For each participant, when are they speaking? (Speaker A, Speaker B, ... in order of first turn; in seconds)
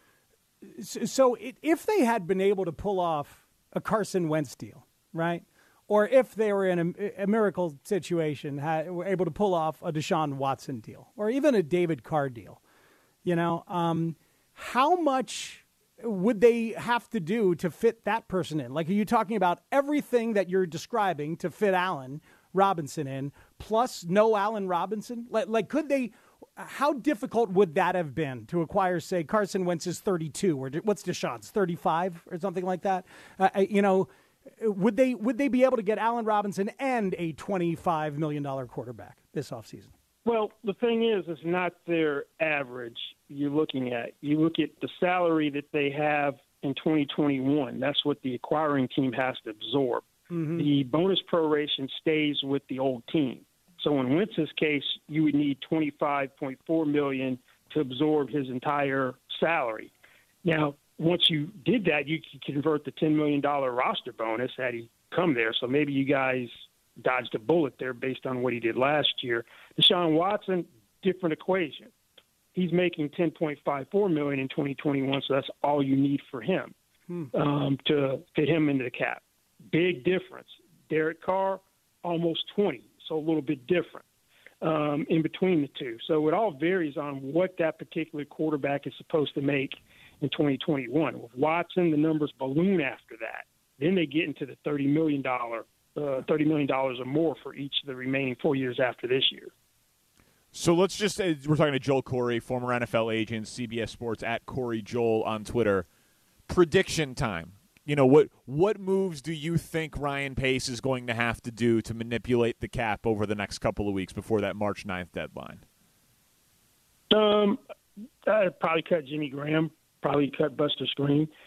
Speaker A: 0.8-12.6, 13.2-39.9, 50.3-50.7
Speaker B: 40.2-59.9, 60.4-71.9, 72.5-76.7, 77.3-84.0, 84.6-99.5, 117.1-117.6, 118.2-121.3
Speaker C: 100.5-105.9, 106.5-115.6